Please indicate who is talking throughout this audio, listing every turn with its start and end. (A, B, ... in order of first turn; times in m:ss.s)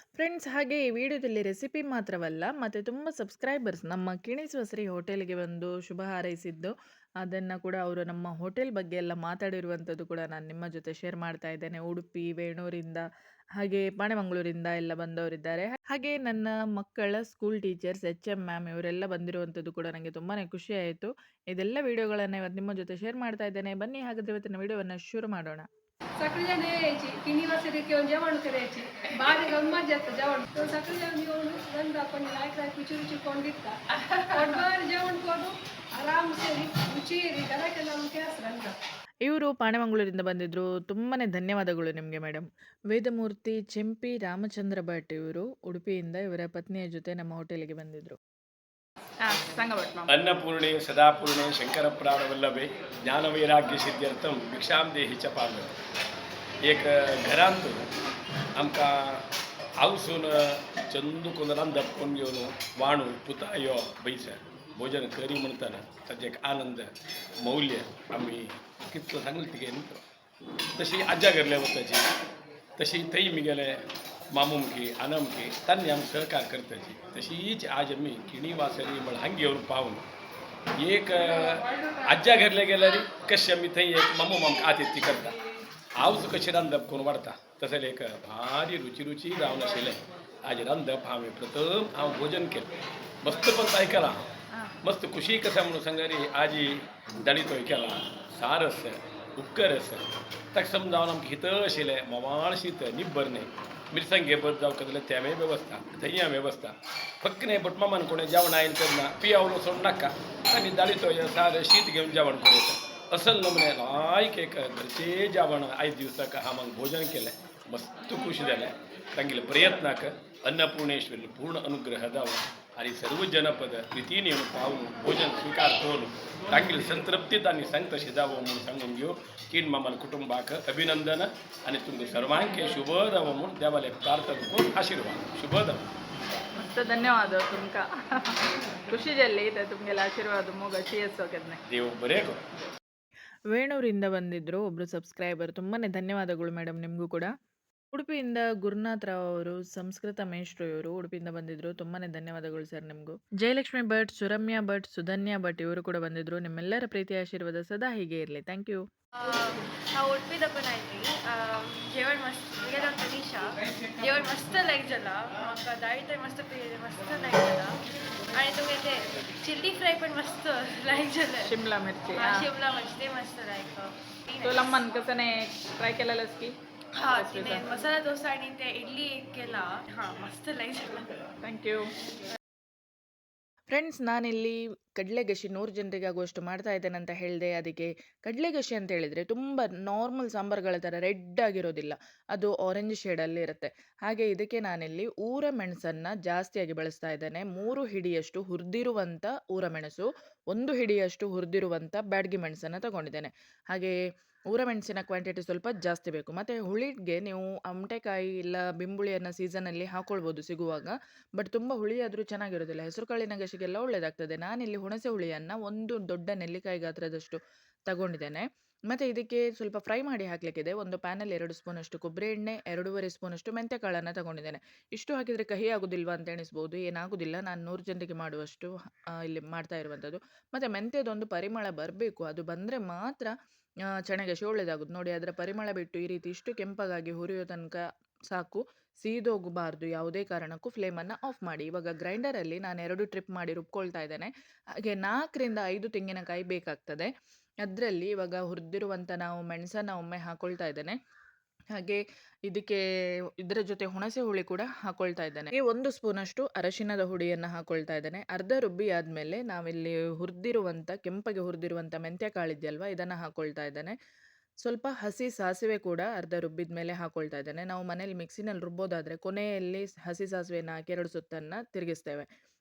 0:00.2-0:13.0 A
0:13.6-0:25.7 A
0:26.2-0:38.8 B
0:39.2-0:48.2 A
0:49.2-0:50.1 A
0:50.1-0:55.7 C
0:56.7-0:57.8 C
0:58.6-0:59.2 C
0:59.8-1:06.9 C
1:07.4-1:10.0 C
1:10.8-1:12.0 C
1:12.8-1:13.8 C
1:14.3-1:20.0 C
1:20.8-1:25.3 C
1:26.0-1:32.7 C
1:33.2-1:34.3 C
1:34.8-1:36.7 C
1:37.2-2:15.8 C
2:16.6-2:18.3 A
2:18.9-2:21.6 A
2:21.7-2:22.4 C
2:23.5-2:27.3 A
2:27.9-2:38.8 A
2:39.2-2:47.8 D
2:48.3-2:51.6 D
2:51.4-2:52.5 A
2:52.1-2:54.9 D
2:54.4-2:56.5 A
2:56.9-3:01.1 D
2:57.1-2:57.6 A
3:01.4-3:01.8 A
3:03.7-3:23.9 A
3:24.5-3:53.3 A
3:54.0-4:04.3 A
4:04.8-4:07.1 A
4:07.6-4:11.0 A
4:11.8-4:12.8 A
4:13.4-4:23.9 A
4:24.6-4:32.3 A